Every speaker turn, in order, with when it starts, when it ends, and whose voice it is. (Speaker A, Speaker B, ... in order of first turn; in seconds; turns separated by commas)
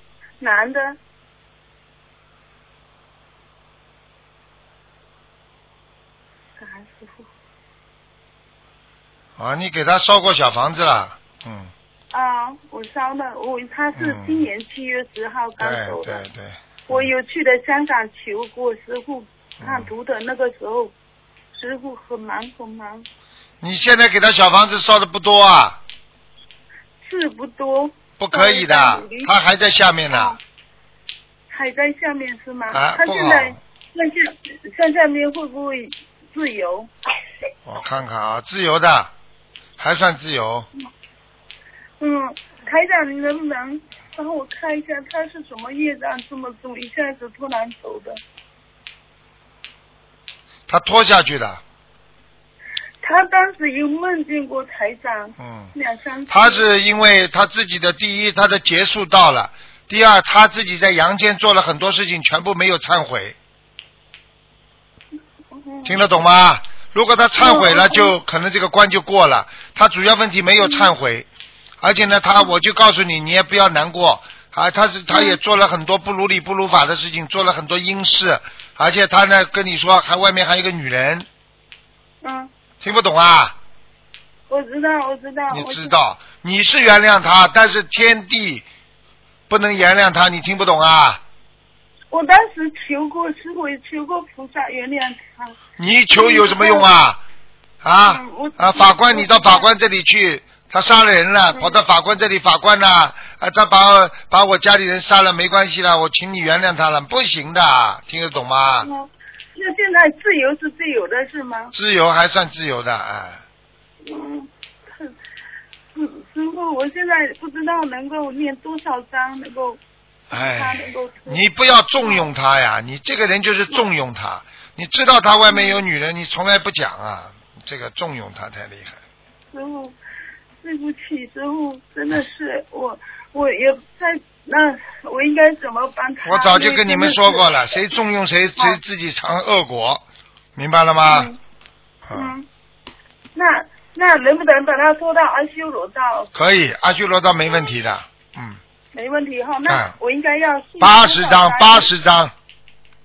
Speaker A: 0.4-1.0, Speaker A: 6.6-7.3, Speaker B: 9.4-11.7, Speaker A: 12.1-16.2, Speaker B: 14.0-14.4, Speaker B: 15.6-17.1, Speaker A: 16.9-20.9, Speaker B: 19.6-19.9, Speaker A: 21.5-23.1, Speaker B: 23.6-25.8, Speaker A: 27.0-29.3, Speaker B: 28.2-30.4, Speaker A: 30.1-30.4, Speaker A: 31.5-36.9, Speaker B: 32.7-33.6, Speaker B: 37.7-39.1, Speaker B: 39.8-40.7, Speaker A: 42.0-48.2, Speaker B: 50.7-51.6, Speaker A: 53.0-56.7, Speaker B: 55.4-55.7, Speaker B: 56.3-63.4, Speaker A: 65.6-66.0, Speaker B: 65.8-71.3, Speaker A: 67.4-68.1, Speaker A: 70.6-70.9, Speaker B: 71.8-81.3, Speaker A: 75.1-75.4, Speaker A: 82.2-82.5, Speaker B: 82.8-83.5, Speaker A: 84.5-85.9, Speaker B: 85.5-88.7, Speaker B: 89.5-91.2, Speaker A: 92.1-95.6, Speaker B: 95.8-97.2, Speaker A: 96.1-96.9, Speaker B: 97.8-108.9, Speaker A: 98.1-99.7, Speaker A: 101.5-101.8, Speaker A: 108.8-111.7, Speaker B: 111.7-113.4, Speaker A: 114.0-115.1, Speaker A: 115.9-119.8, Speaker B: 120.3-129.0, Speaker A: 120.3-121.4, Speaker A: 122.0-122.3, Speaker A: 125.5-125.8, Speaker A: 129.5-129.9, Speaker A: 130.6-137.5, Speaker B: 136.2-140.0, Speaker B: 140.6-141.3, Speaker A: 141.1-141.4, Speaker A: 142.1-142.5, Speaker A: 143.3-146.3, Speaker B: 146.3-148.6, Speaker A: 148.9-151.9, Speaker B: 149.7-149.9, Speaker B: 150.8-152.3